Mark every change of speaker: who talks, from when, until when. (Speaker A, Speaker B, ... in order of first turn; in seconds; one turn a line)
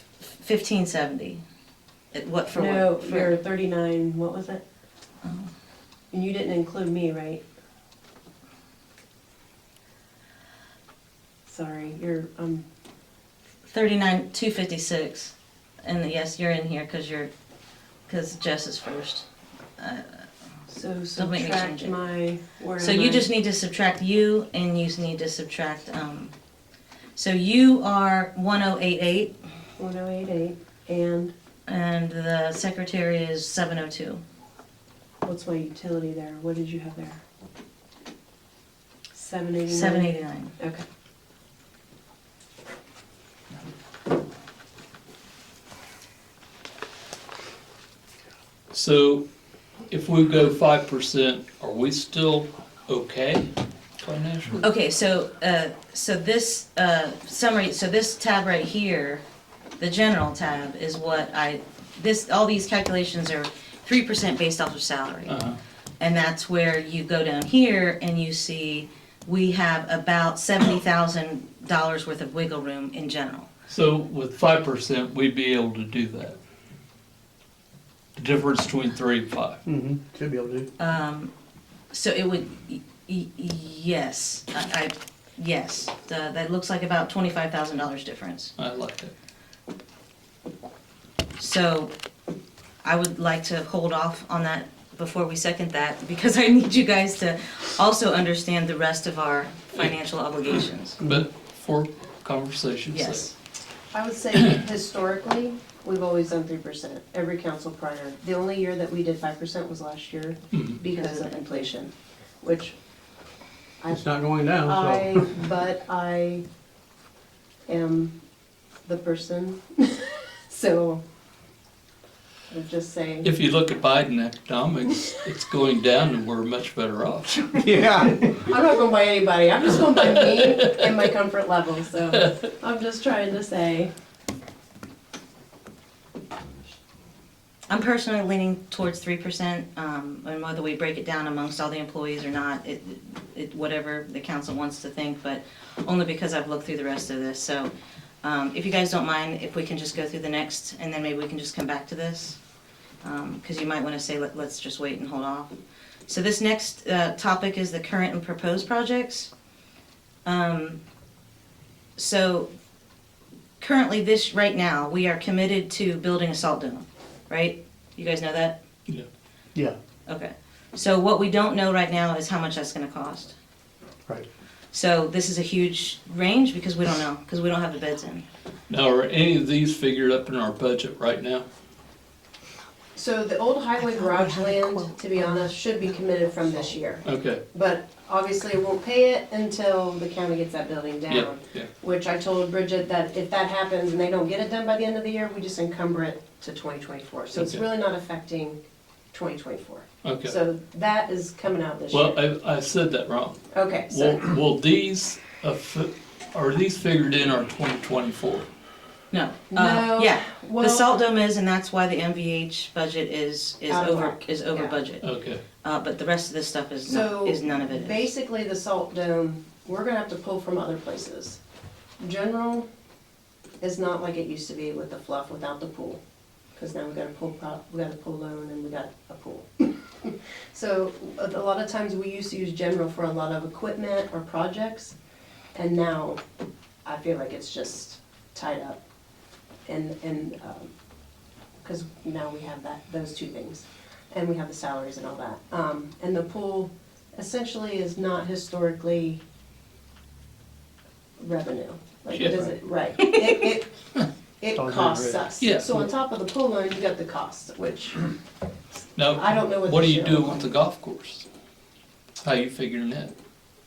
Speaker A: 0.3-1.4
Speaker A: 2.1-3.3
Speaker B: 2.5-4.6
Speaker A: 5.2-5.5
Speaker B: 6.1-7.4
Speaker B: 11.5-12.7
Speaker A: 13.7-17.3
Speaker A: 18.1-19.3
Speaker A: 19.8-20.3
Speaker B: 20.7-23.3
Speaker A: 21.2-22.0
Speaker A: 22.8-26.3
Speaker A: 27.2-29.3
Speaker B: 29.8-31.3
Speaker A: 31.7-34.2
Speaker B: 35.2-37.2
Speaker B: 39.1-40.9
Speaker A: 39.7-40.5
Speaker C: 48.7-49.3
Speaker C: 49.9-54.6
Speaker A: 54.6-59.2
Speaker A: 59.8-65.4
Speaker C: 65.3-65.6
Speaker A: 66.0-73.5
Speaker C: 73.7-76.4
Speaker C: 78.2-79.6
Speaker D: 79.7-80.7
Speaker A: 80.8-81.3
Speaker A: 81.9-88.5
Speaker C: 88.6-89.1
Speaker A: 91.4-91.9
Speaker A: 92.8-101.0
Speaker C: 101.0-103.3
Speaker A: 102.9-103.3
Speaker B: 103.9-112.8
Speaker C: 110.5-110.8
Speaker A: 110.9-111.7
Speaker B: 113.8-116.4
Speaker D: 113.9-115.4
Speaker B: 117.7-118.2
Speaker B: 118.8-121.0
Speaker B: 122.5-123.3
Speaker C: 123.2-127.7
Speaker D: 127.6-128.4
Speaker B: 128.3-133.9
Speaker C: 129.9-130.9
Speaker C: 132.1-132.4
Speaker A: 137.7-147.7
Speaker A: 148.2-152.4
Speaker A: 153.0-155.6
Speaker A: 156.1-159.3
Speaker A: 160.2-160.8
Speaker A: 162.0-162.5
Speaker A: 163.6-168.6
Speaker A: 170.1-173.3
Speaker A: 174.7-178.3
Speaker C: 178.7-181.5
Speaker B: 182.9-198.6
Speaker D: 184.4-184.8
Speaker C: 187.0-187.4
Speaker C: 191.1-191.7
Speaker C: 197.3-197.6
Speaker B: 199.1-202.2
Speaker C: 200.0-200.4
Speaker C: 201.9-208.5
Speaker B: 203.5-204.3
Speaker A: 209.1-215.1
Speaker B: 209.5-211.0
Speaker B: 213.7-214.8
Speaker C: 215.0-215.4
Speaker A: 215.6-218.1
Speaker B: 216.9-221.4
Speaker B: 222.0-222.7
Speaker B: 223.6-226.0
Speaker B: 226.6-234.9
Speaker B: 235.5-236.2
Speaker B: 236.8-238.8
Speaker B: 239.7-240.7
Speaker B: 241.6-249.2
Speaker B: 251.2-253.7
Speaker C: 252.1-252.6
Speaker B: 254.4-258.1
Speaker D: 254.5-255.2
Speaker C: 255.4-255.9
Speaker C: 259.0-261.3
Speaker B: 259.1-260.4
Speaker C: 262.2-263.1